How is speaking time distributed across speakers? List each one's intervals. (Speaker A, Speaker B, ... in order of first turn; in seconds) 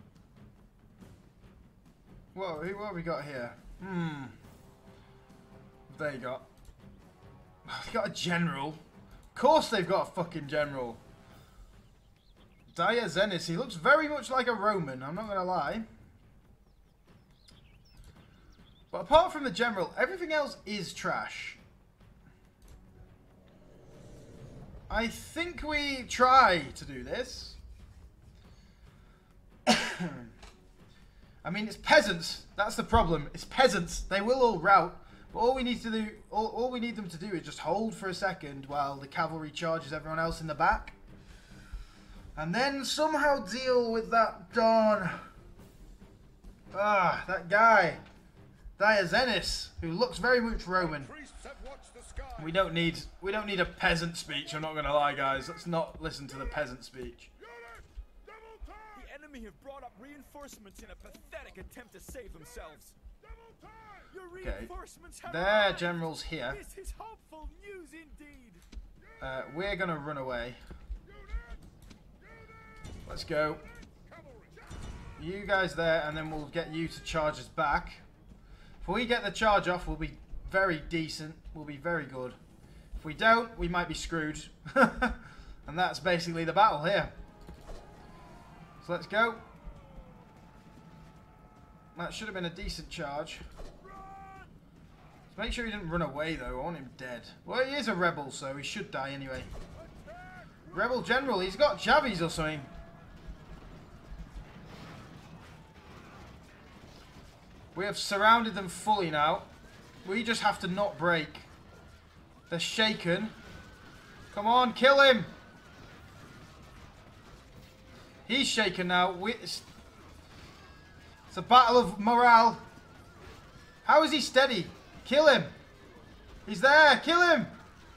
Speaker A: 2.3-4.4, 5.9-6.5, 7.7-8.8, 9.3-11.0, 12.7-15.9, 18.9-21.6, 24.9-27.6, 29.7-30.3, 31.4-41.0, 42.4-45.2, 46.7-48.0, 48.8-51.1, 52.4-57.3, 64.4-64.7, 65.2-66.6, 69.2-70.6, 73.1-73.7, 75.2-78.0, 78.8-82.4, 83.0-87.1, 88.8-89.4, 92.0-93.4, 95.3-99.5, 100.7-102.7, 107.8-109.5, 110.0-111.5, 112.5-113.3, 114.3-115.3, 118.3-119.7, 121.3-122.6, 123.8-125.5, 126.5-127.5
Speaker B: 50.8-52.6, 57.6-59.0, 63.3-64.0, 74.1-74.5
Speaker C: 58.9-63.0, 64.1-68.6